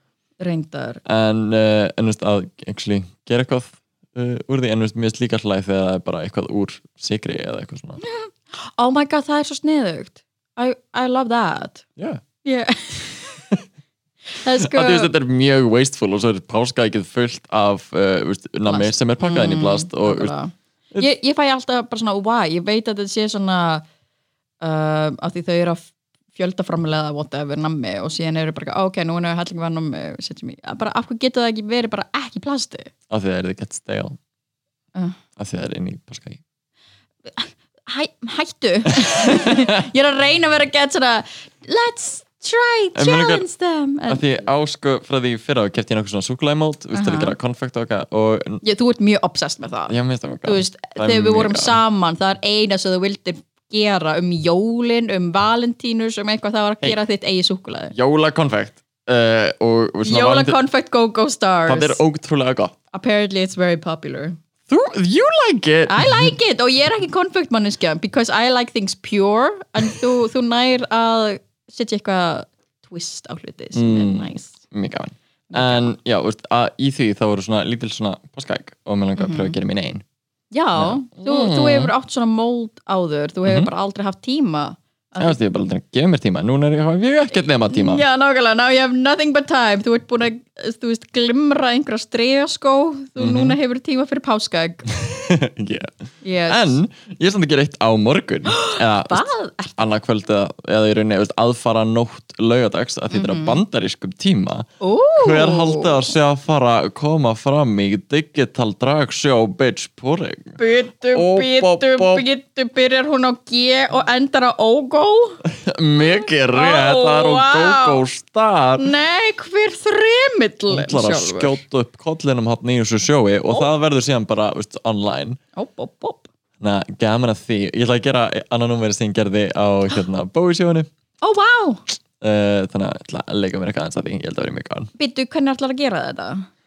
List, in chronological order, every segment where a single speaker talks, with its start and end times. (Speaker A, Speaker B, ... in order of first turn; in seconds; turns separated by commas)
Speaker A: 0.4-1.0, Speaker B: 1.0-8.0, Speaker A: 8.0-11.8, Speaker A: 12.4-13.4, Speaker A: 14.3-15.1, Speaker B: 14.6-20.3, Speaker A: 18.6-23.8, Speaker A: 24.6-32.9, Speaker B: 33.1-34.2, Speaker B: 35.4-36.4, Speaker A: 37.3-44.2, Speaker B: 39.0-39.8, Speaker B: 42.9-43.4, Speaker B: 44.1-48.6, Speaker A: 46.9-47.3, Speaker A: 48.6-57.9, Speaker B: 49.9-51.8, Speaker B: 57.9-60.5, Speaker A: 60.0-62.0, Speaker B: 61.7-62.7, Speaker A: 62.9-64.4, Speaker B: 64.7-66.3, Speaker A: 65.9-74.5, Speaker B: 73.7-80.0, Speaker A: 75.5-75.9, Speaker A: 79.2-79.5, Speaker A: 80.5-85.4, Speaker B: 80.8-81.9, Speaker B: 85.2-88.0, Speaker A: 87.7-94.9, Speaker B: 93.2-93.6, Speaker B: 95.0-95.9, Speaker A: 96.2-96.8, Speaker B: 96.5-104.7, Speaker A: 98.5-99.9, Speaker A: 103.1-103.6, Speaker A: 104.8-106.1, Speaker B: 105.2-110.6, Speaker A: 110.6-115.4, Speaker B: 111.1-112.2, Speaker B: 115.4-118.9, Speaker A: 116.5-118.0, Speaker A: 118.8-121.6, Speaker B: 120.7-125.4, Speaker A: 125.5-126.2, Speaker B: 126.6-130.9, Speaker A: 131.2-131.8, Speaker B: 132.2-134.9, Speaker A: 135.0-136.4